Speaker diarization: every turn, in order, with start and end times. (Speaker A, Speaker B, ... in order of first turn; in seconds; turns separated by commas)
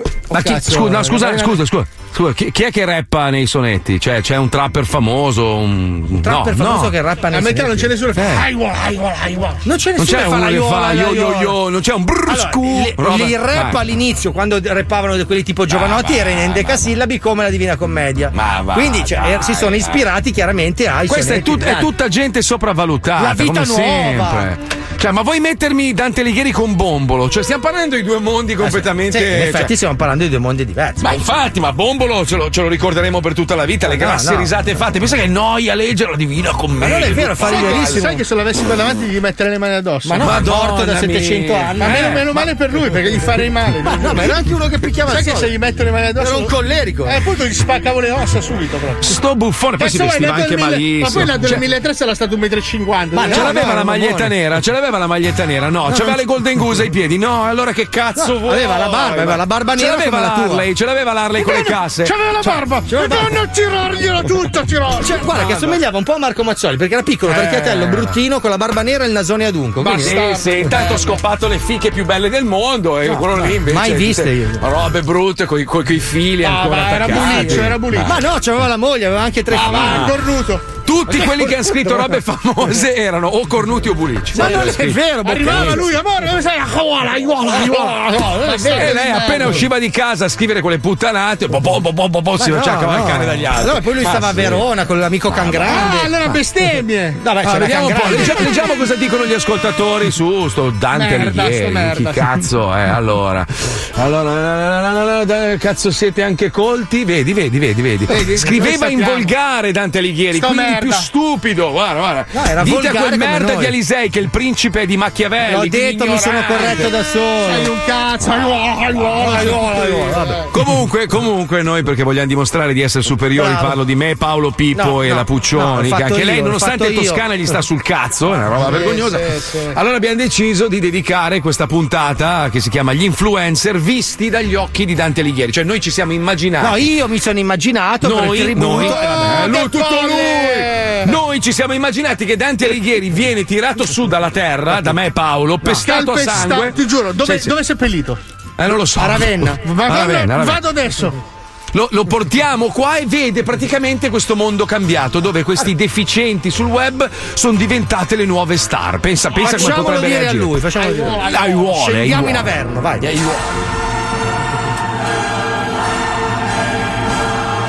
Speaker A: 0.3-1.6, Speaker B: 0.3-7.0, Speaker C: 6.2-7.9, Speaker A: 7.3-9.6, Speaker B: 8.1-8.4, Speaker C: 9.6-11.6, Speaker B: 10.0-13.8, Speaker C: 12.3-21.9, Speaker B: 15.7-16.8, Speaker B: 18.3-20.0, Speaker B: 21.1-29.7, Speaker C: 23.2-24.5, Speaker C: 28.6-31.2, Speaker B: 31.0-38.1, Speaker C: 33.8-34.5, Speaker C: 36.8-38.2, Speaker A: 37.5-40.3, Speaker C: 40.0-42.3, Speaker B: 40.2-42.4, Speaker A: 41.8-44.3, Speaker C: 43.8-45.5, Speaker A: 45.1-46.5, Speaker C: 46.2-47.2, Speaker A: 47.0-49.2, Speaker B: 49.0-51.6, Speaker A: 49.8-53.7, Speaker C: 53.1-54.3, Speaker B: 53.3-62.6, Speaker C: 55.9-56.1, Speaker C: 58.1-60.6, Speaker A: 61.4-65.5, Speaker C: 62.9-63.3, Speaker C: 65.0-70.2, Speaker B: 67.3-68.2, Speaker A: 69.8-71.1, Speaker B: 70.0-78.2, Speaker C: 73.0-74.7, Speaker A: 76.4-78.2, Speaker C: 77.1-80.1, Speaker A: 79.5-80.7, Speaker B: 79.7-80.1, Speaker B: 80.8-85.8, Speaker C: 81.1-82.1, Speaker C: 84.3-85.8, Speaker A: 84.3-89.6, Speaker C: 87.5-89.5, Speaker B: 88.5-94.6, Speaker C: 92.4-96.4, Speaker B: 95.3-95.6, Speaker A: 95.6-97.2, Speaker C: 97.2-98.6, Speaker B: 97.4-116.9, Speaker A: 98.0-98.5, Speaker A: 100.9-102.4, Speaker A: 108.1-109.3, Speaker A: 110.3-111.1, Speaker C: 112.3-113.7, Speaker C: 115.4-117.7, Speaker A: 117.4-120.5, Speaker C: 119.1-120.4, Speaker B: 120.5-136.9, Speaker C: 123.3-123.8, Speaker C: 124.7-127.3, Speaker A: 128.6-129.7, Speaker C: 136.6-139.5, Speaker B: 138.0-147.6, Speaker A: 138.7-141.1, Speaker A: 145.8-148.2, Speaker B: 148.6-150.6, Speaker C: 148.9-149.6, Speaker A: 149.6-151.2, Speaker B: 151.7-160.6, Speaker C: 159.4-163.2, Speaker A: 160.8-161.6, Speaker B: 161.3-163.6